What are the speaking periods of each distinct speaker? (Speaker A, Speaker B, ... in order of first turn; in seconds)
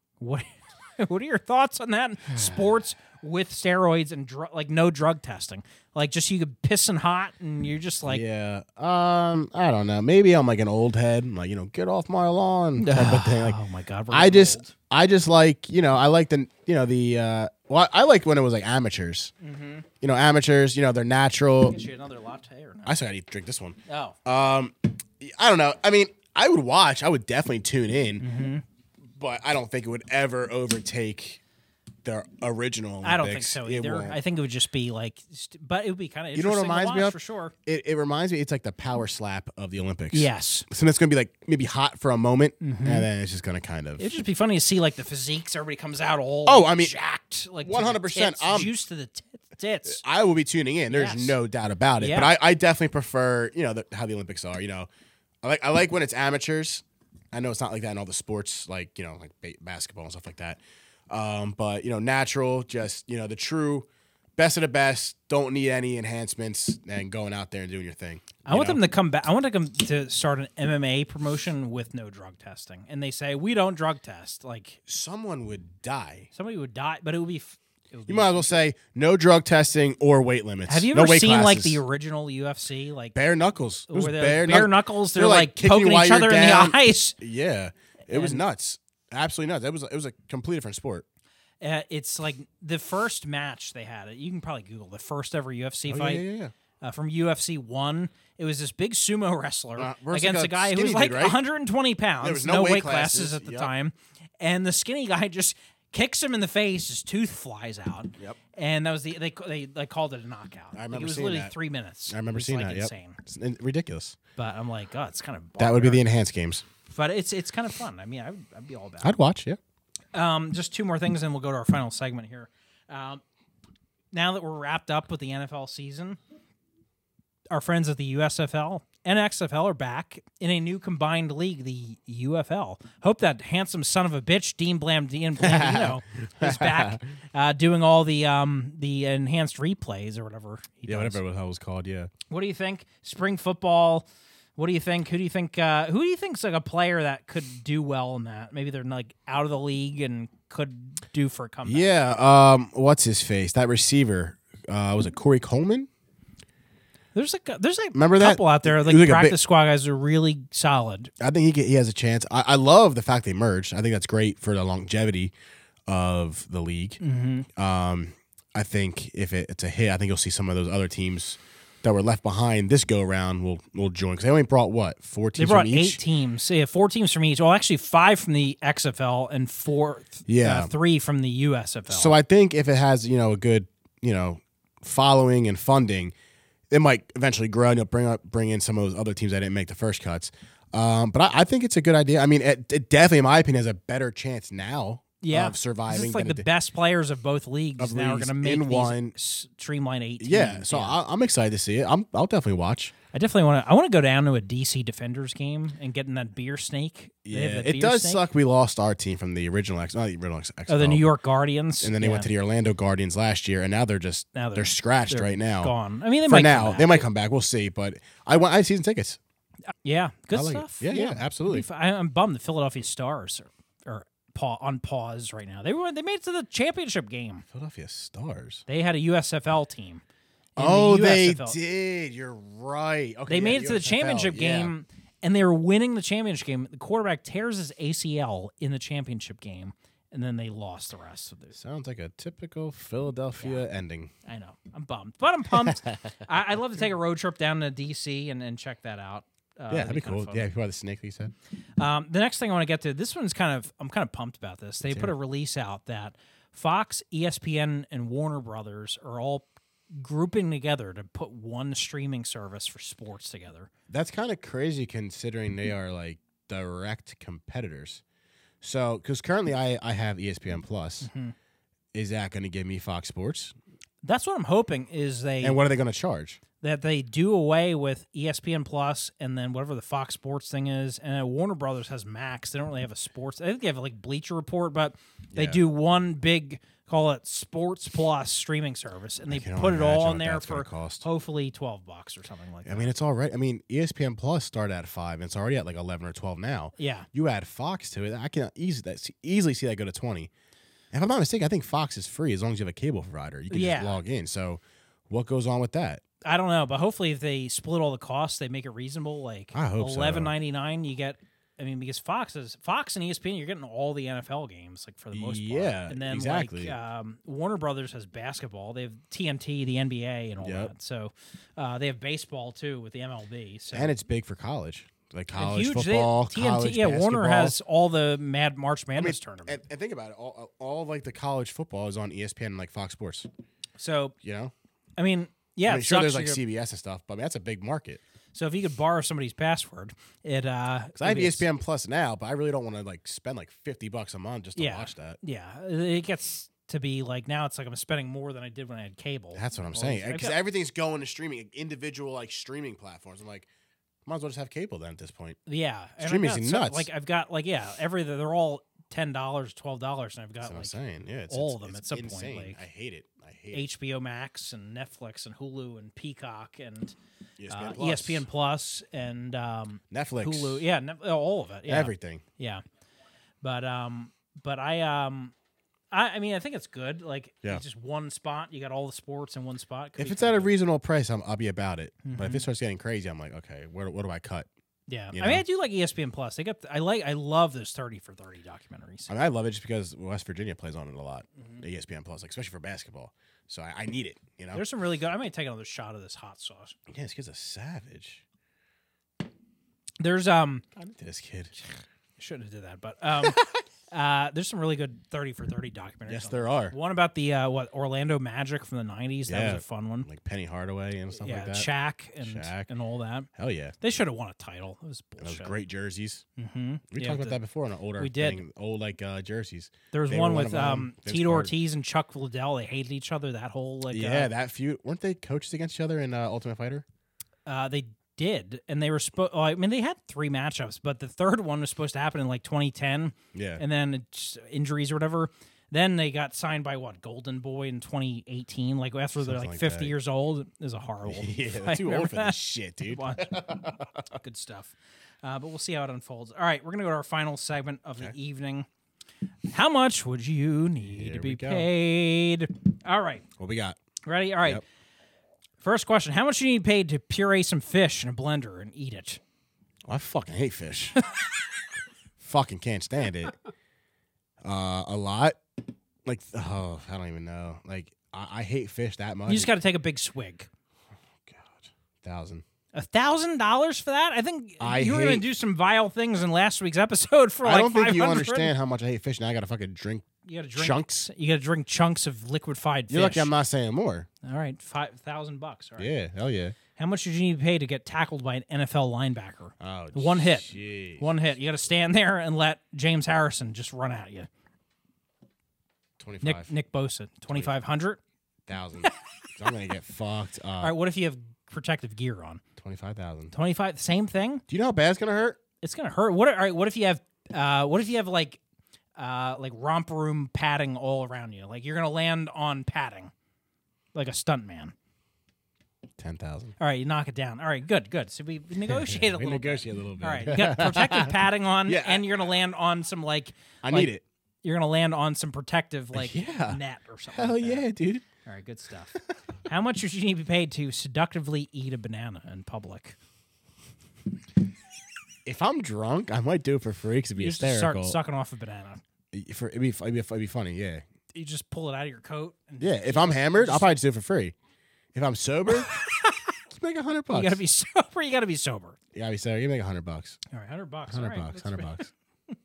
Speaker A: 0.2-8.2, 12.8-14.7, 19.4-19.9, 21.7-22.9, 23.9-24.2, 28.2-28.6, 33.0-37.5, 40.1-40.7, 42.6-43.1, 44.0-50.0, 50.9-51.4, 52.0-52.3, 68.5-74.8, 76.3-78.5, 80.7-83.2, 83.9-87.2, 88.1-88.4, 91.6-96.2, 96.8-113.2, 114.4-116.0, 116.9-119.2, 120.1-123.2, 124.1-126.2, 127.5-141.2, 142.3-152.0, 157.2-161.1, 167.0-167.5, 175.4-182.2, 195.2-201.0, 203.1-208.2, 210.7-212.3, 214.3-217.1, 219.8-227.4, 228.7-230.0, 230.6-231.6, 233.3-241.6, 244.2-250.5, 251.8-263.7, 271.0-271.3, 274.0-275.6, 276.6-292.9, 296.8-297.1, 303.5-304.0, 306.2-323.9, 325.4-329.6, 333.8-334.2, 335.0-336.4, 338.3-341.4, 344.6-350.4, 355.5-360.8, 361.3-362.6, 363.5-367.0, 367.5-372.6, 373.4-375.3, 375.9-380.5, 382.0-382.4, 384.9-389.1, 394.5-396.8, 400.0-400.6, 402.2-403.4, 403.9-410.1, 411.2-413.3, 413.8-415.6, 416.4-417.4, 418.0-418.4, 419.9-424.3, 427.5-443.4, 444.1-448.7, 449.5-453.3, 454.1-454.6, 455.6-459.2, 469.3-470.5, 472.7-478.5, 480.2-483.3, 484.2-485.9, 486.8-494.3, 496.2-498.0, 500.6-502.4, 503.3-504.4, 505.6-508.4, 509.0-513.1, 513.9-514.8, 516.6-523.9, 524.4-527.7, 528.2-533.0, 537.2-538.8, 541.1-543.7, 545.5-546.3, 547.1-548.8, 550.3-551.9
Speaker B: 2.3-2.6, 8.1-19.3, 20.0-21.8, 22.9-28.2, 29.2-31.4, 32.0-34.2, 36.3-44.2, 46.5-46.9, 47.6-48.7, 49.9-54.9, 55.4-68.8, 74.9-76.3, 78.1-81.8, 83.2-91.0, 95.9-96.5, 99.8-101.4, 102.2-103.7, 110.7-111.5, 112.1-114.2, 115.6-116.7, 119.0-119.6, 135.4-137.0, 140.9-142.1, 151.7-155.9, 157.9-159.4, 161.2-165.3, 165.9-167.0, 167.6-176.0, 180.3-180.7, 181.9-186.1, 186.7-196.5, 197.8-199.2, 200.2-202.9, 207.2-211.1, 211.8-215.7, 216.3-219.2, 220.3-221.7, 227.5-228.7, 230.6-234.7, 241.5-244.1, 245.6-246.0, 249.7-251.3, 254.9-255.1, 263.9-268.0, 268.6-271.1, 271.9-273.5, 275.4-276.4, 285.3-285.6, 289.3-291.1, 292.6-300.3, 300.9-306.0, 309.5-310.3, 315.1-316.7, 320.4-320.7, 323.7-327.6, 329.0-333.3, 334.2-334.5, 335.7-338.0, 341.0-345.2, 349.4-353.5, 354.1-355.4, 356.0-356.9, 360.4-363.7, 367.4-368.2, 369.9-370.6, 371.7-372.2, 380.0-384.5, 385.1-385.4, 389.1-394.6, 396.9-398.2, 400.8-401.5, 403.2-403.6, 406.1-406.8, 409.3-411.7, 412.2-412.7, 413.4-413.8, 415.2-416.2, 416.9-421.6, 423.9-426.9, 433.3-433.6, 439.2-439.9, 441.1-444.1, 450.9-451.7, 453.4-453.8, 459.9-461.0, 462.2-463.3, 464.4-465.4, 466.1-469.5, 471.2-472.4, 474.6-475.2, 477.4-481.1, 482.9-484.1, 485.8-486.6, 489.6-491.2, 496.0-496.5, 498.5-500.8, 502.6-503.3, 504.5-505.4, 516.0-516.6, 518.7-521.1, 521.7-522.1, 523.6-524.0, 525.9-526.6, 527.1-528.0, 535.2-538.0, 539.1-540.8, 542.6-544.4, 544.9-545.7, 546.5-547.4, 548.9-550.2, 550.9-551.9